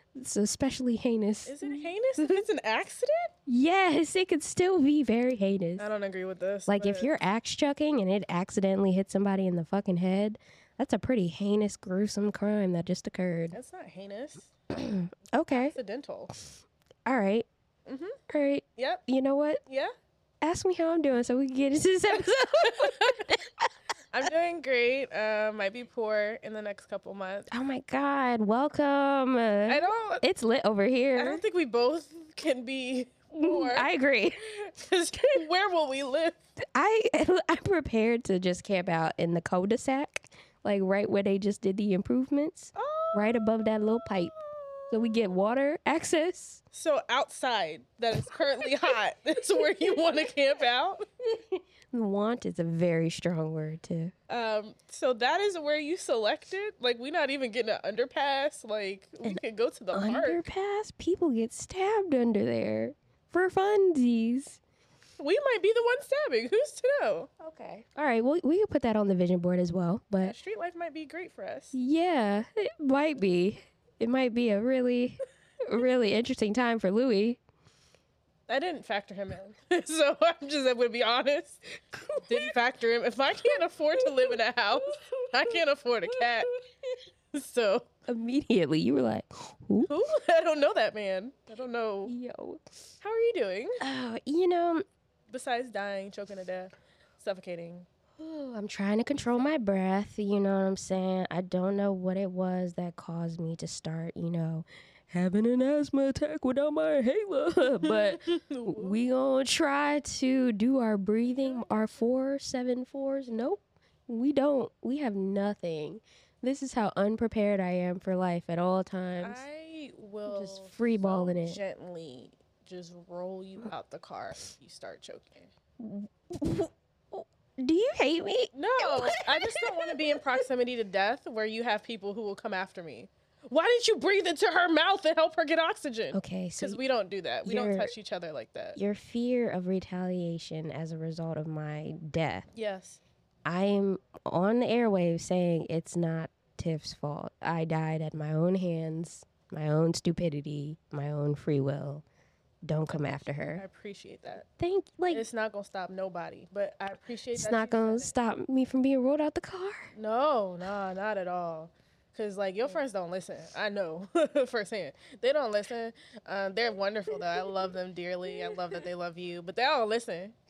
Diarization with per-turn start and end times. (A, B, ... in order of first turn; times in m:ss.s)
0:00.2-0:02.4 A
0:01.5-0:03.3 B
0:03.5-0:05.9 A
0:05.8-0:07.1 B
0:06.7-0:13.6 A
0:13.5-0:14.5 B
0:14.7-0:15.8 A
0:15.5-0:16.3 B
0:17.0-0:17.5 A
0:17.9-0:18.2 B
0:18.3-0:19.6 A
0:18.8-0:19.0 B
0:19.7-0:19.9 B
0:20.4-0:23.7 A
0:22.6-0:23.3 B
0:24.1-0:27.5 B
0:27.5-0:31.4 A
0:29.7-0:30.2 B
0:31.2-0:33.9 B
0:33.4-0:34.4 A
0:34.4-0:36.4 B
0:36.7-0:44.3 A
0:42.8-0:45.4 B
0:44.9-0:46.6 A
0:46.7-0:51.0 B
0:48.3-0:48.9 A
0:51.5-0:54.1 A
0:54.3-1:00.5 B
0:59.9-1:04.6 A
1:05.2-1:07.8 B
1:08.0-1:10.4 A
1:10.2-1:11.8 B
1:11.7-1:17.4 A
1:18.5-1:26.5 B
1:21.9-1:22.5 A
1:23.4-1:26.9 A
1:27.3-1:27.9 B
1:28.1-1:29.9 A
1:29.9-1:32.1 B
1:32.1-1:32.6 A
1:33.0-1:33.8 B
1:33.8-1:34.8 A
1:35.3-1:37.9 B
1:38.2-1:59.4 A
1:39.1-1:39.5 B
1:47.8-1:49.0 B
1:51.3-1:52.1 B
1:59.2-2:05.5 B
2:00.3-2:01.6 A
2:05.8-2:10.1 A
2:08.5-2:18.8 B
2:16.1-2:16.8 A
2:17.4-2:17.9 A
2:18.8-2:22.5 A
2:22.5-2:23.0 B
2:23.4-2:32.0 A
2:32.7-2:33.6 A
2:32.9-2:34.4 B
2:34.6-2:35.3 A
2:35.1-2:38.1 B
2:37.3-2:39.9 A
2:39.9-2:50.4 B
2:47.1-2:47.5 A
2:48.3-2:48.8 A